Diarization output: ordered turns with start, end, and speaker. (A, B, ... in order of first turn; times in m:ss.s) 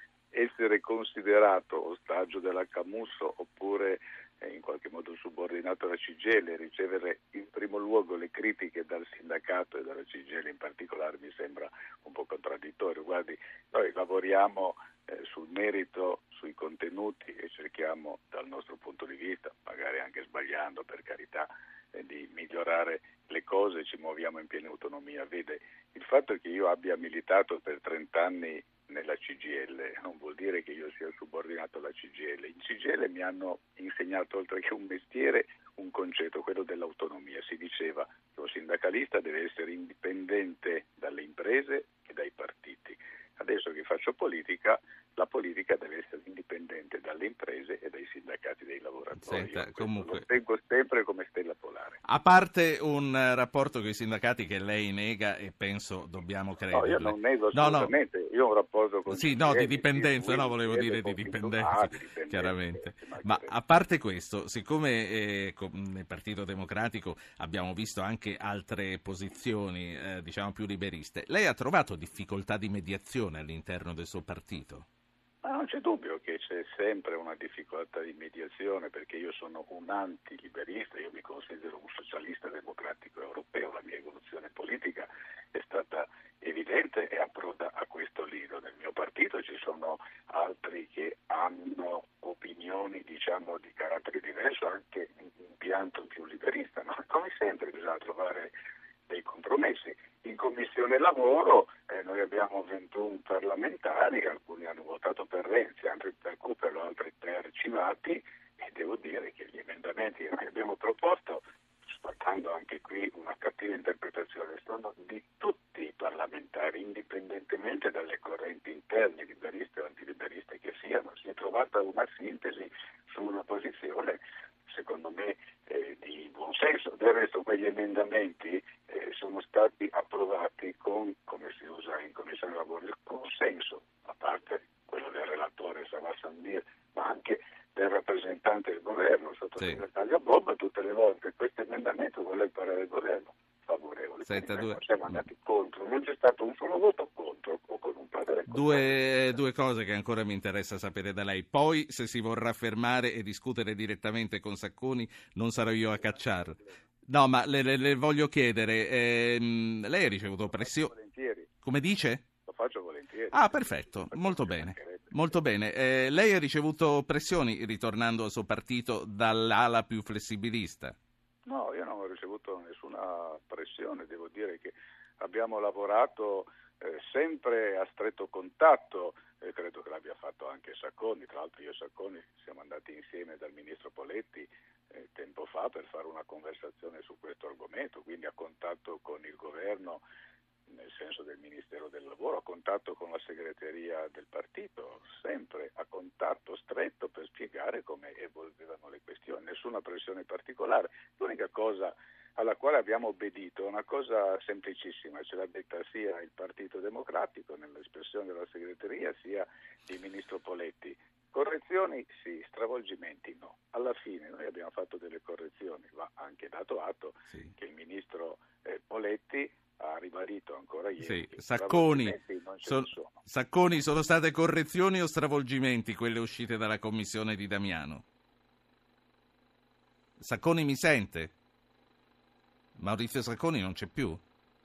0:00.3-0:52.0 A
0:49.2-0:50.3 B
0:52.0-0:57.9 B
0:56.7-1:03.5 A
0:59.1-1:14.9 B
1:15.4-1:38.5 A
1:39.1-2:29.4 A
2:24.2-2:24.8 B
2:28.5-2:40.9 B
2:36.0-2:36.7 A
2:40.5-2:41.5 A
2:41.6-2:42.3 B
2:42.3-2:45.4 A
2:43.3-2:51.0 B
2:51.5-3:10.0 A
3:10.7-3:43.2 A
3:41.0-3:48.0 B
3:50.2-3:51.3 B
3:52.8-3:54.2 B